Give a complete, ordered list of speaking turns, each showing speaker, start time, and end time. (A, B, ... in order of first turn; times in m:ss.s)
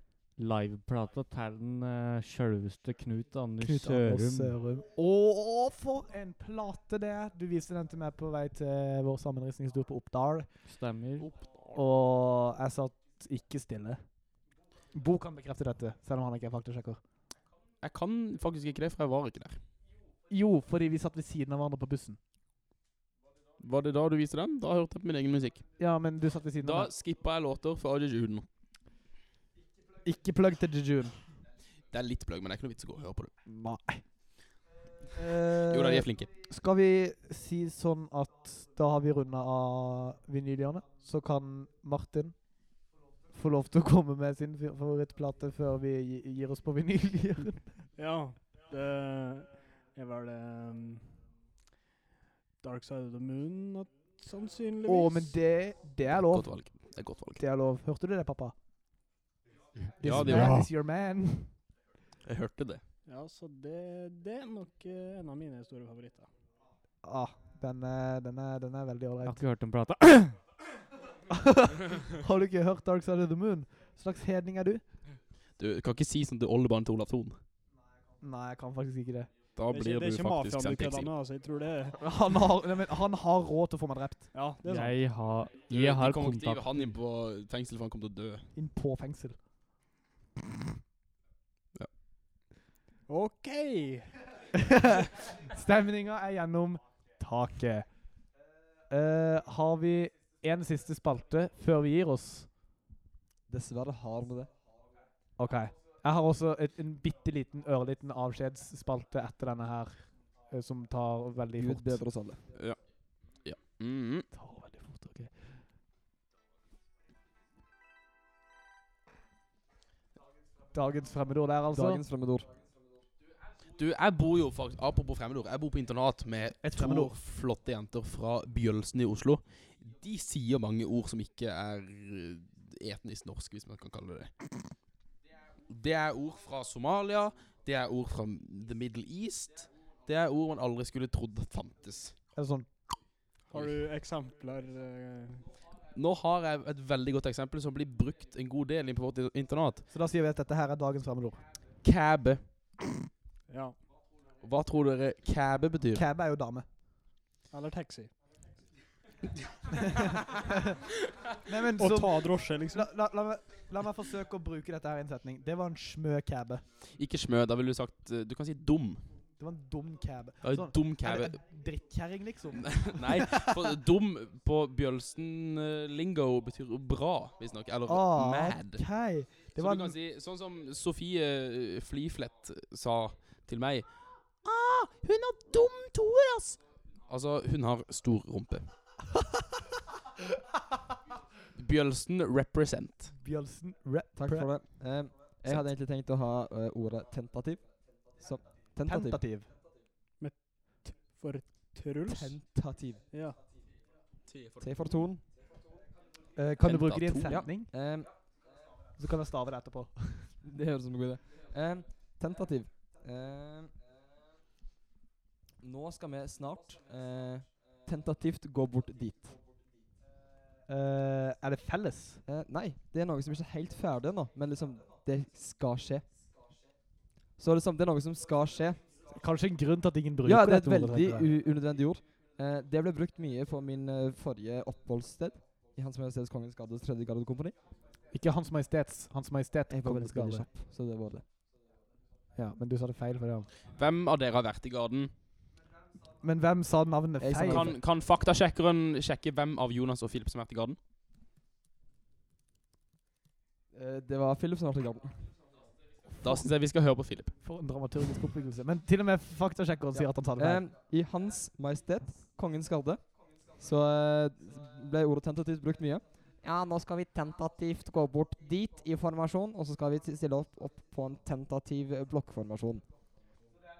0:00.4-0:04.6 A
0:03.6-0:10.5 B
0:10.6-0:11.3 A
0:11.2-0:11.8 C
0:11.7-0:14.0 B
0:14.9-0:17.0 B
0:17.8-0:19.6 C
0:20.3-0:22.2 B
0:23.6-0:25.6 C
0:25.8-0:26.9 B
0:26.6-0:28.4 C
0:30.0-0:31.2 B
0:31.9-0:33.3 C
0:33.5-0:34.0 B
0:35.1-0:42.4 B
0:35.5-0:36.3 C
0:43.3-0:47.8 B
0:48.0-0:51.2 D
0:52.6-0:55.4 D
0:54.9-0:56.7 B
0:56.1-0:57.4 C
0:57.4-0:58.5 B
0:59.8-1:00.6 C
1:00.0-1:01.6 B
1:00.2-1:00.7 A
1:00.3-1:00.6 D
1:02.2-1:02.8 C
1:03.0-1:06.3 D
1:07.0-1:09.4 B
1:09.2-1:10.4 A
1:11.3-1:14.8 B
1:15.6-1:17.4 C
1:18.2-1:19.3 B
1:19.6-1:21.1 C
1:19.7-1:22.0 D
1:22.0-1:24.3 B
1:24.3-1:24.9 D
1:24.6-1:26.8 A
1:25.7-1:28.5 C
1:28.5-1:29.4 B
1:33.1-1:34.2 D
1:34.5-1:37.9 B
1:38.9-1:42.5 B
1:43.5-1:44.5 E
1:45.4-1:52.0 B
1:51.5-1:52.4 E
1:52.5-1:52.8 C
1:53.4-1:54.3 C
1:54.3-1:55.3 B
2:00.7-2:02.0 B
2:01.7-2:02.5 E
2:03.8-2:14.5 C
2:06.6-2:07.1 B
2:15.7-2:22.1 C
2:22.3-2:22.7 B
2:23.5-2:25.5 D
2:25.9-2:29.9 C
2:29.9-2:31.4 B
2:31.8-2:32.4 C
2:33.5-2:33.8 D
2:34.4-2:36.0 C
2:35.9-2:36.7 B
2:37.5-2:38.1 D
2:39.8-2:40.8 B
2:41.4-2:46.6 B
2:41.7-2:42.9 D
2:47.0-2:49.0 C
2:49.4-2:53.7 B
2:50.4-2:51.4 C
2:52.6-2:58.8 C
2:57.9-2:59.9 B
2:59.5-3:03.9 C
3:04.4-3:08.7 C
3:11.5-3:13.1 C
3:13.2-3:14.5 B
3:14.1-3:19.2 E
3:18.8-3:19.5 B
3:20.2-3:22.4 D
3:22.1-3:23.0 E
3:23.1-3:23.4 D
3:24.3-3:24.9 C
3:24.6-3:25.2 E
3:26.4-3:27.7 B
3:26.6-3:27.5 C
3:27.2-3:28.1 E
3:29.0-3:30.3 B
3:30.4-3:33.7 E
3:35.6-3:39.4 E
3:40.7-3:42.2 B
3:42.2-3:46.1 E
3:47.4-3:48.8 E
3:49.1-3:51.3 B
3:50.2-3:57.6 E
3:58.1-4:00.5 B
3:59.7-4:01.2 E
4:02.4-4:03.5 B
4:03.7-4:05.1 C
4:06.2-4:07.7 B
4:07.2-4:07.8 E
4:07.4-4:10.8 C
4:13.7-4:15.3 E
4:16.2-4:17.3 C
4:17.4-4:20.6 B
4:19.9-4:32.8 E